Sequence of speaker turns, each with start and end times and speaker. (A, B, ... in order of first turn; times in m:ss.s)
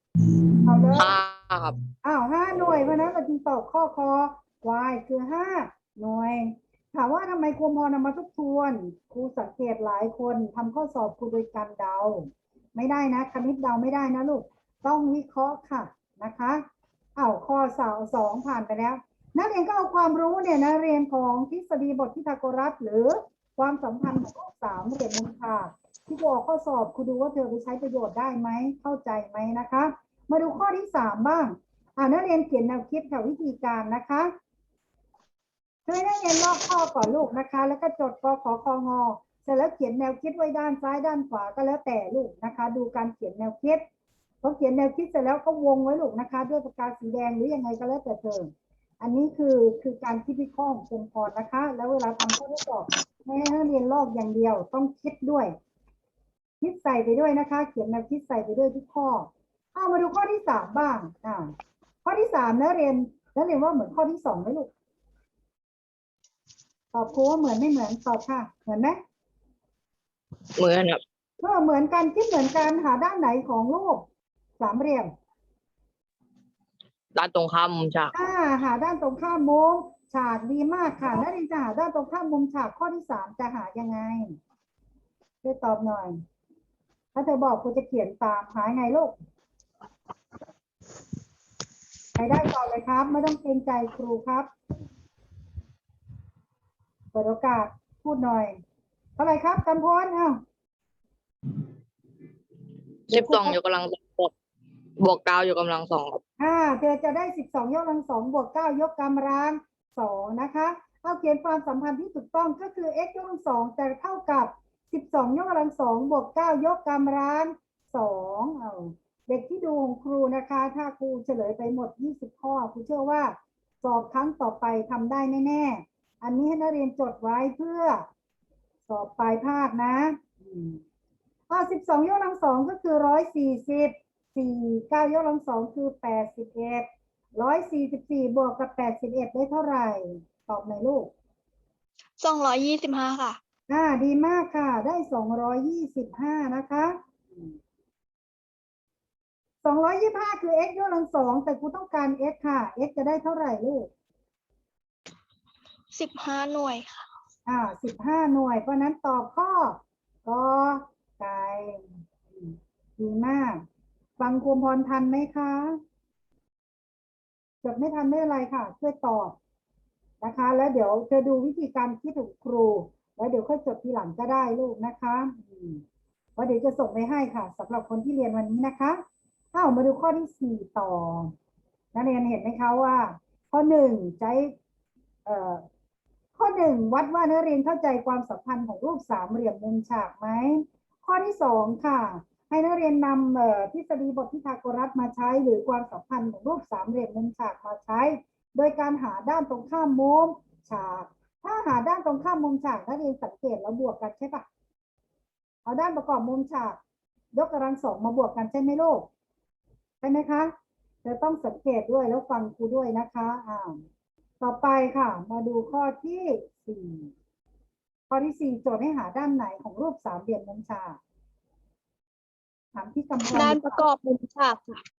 0:00.6-0:01.2 A
0:00.9-0:01.8 B
0:02.0-0:16.6 A
0:17.2-0:34.3 A
0:35.9-0:43.8 A
0:44.4-0:55.6 A
0:56.6-1:01.5 A
1:02.0-1:04.7 A
1:06.9-1:09.0 A
1:10.6-1:11.0 B
1:11.4-1:14.1 A
1:14.6-1:15.1 A
1:17.2-1:18.1 B
1:18.1-1:24.4 A
1:25.4-1:26.2 A
1:27.1-1:29.1 A
1:32.2-1:34.5 A
1:37.1-1:38.6 A
1:39.2-1:40.4 A
1:43.1-1:44.3 B
1:43.1-1:43.6 A
1:45.0-1:46.2 B
1:46.4-2:08.1 A
2:08.9-2:10.8 A
2:11.5-2:21.1 A
2:22.2-2:23.4 C
2:23.7-2:27.4 A
2:29.6-2:33.9 A
2:35.9-2:37.1 C
2:37.5-2:43.6 A
2:44.2-2:45.8 A
2:47.6-2:49.4 A
2:50.2-2:55.8 A
2:56.4-2:59.0 A
2:59.5-3:01.3 A
3:01.9-3:04.6 A
3:05.3-3:05.6 A
3:06.4-3:24.4 A
3:25.6-3:26.8 A
3:27.3-3:29.1 A
3:30.0-3:30.5 A
3:31.0-3:33.8 A
3:34.4-3:37.1 A
3:38.1-3:41.0 A
3:42.8-3:43.8 A
3:43.2-3:44.8 C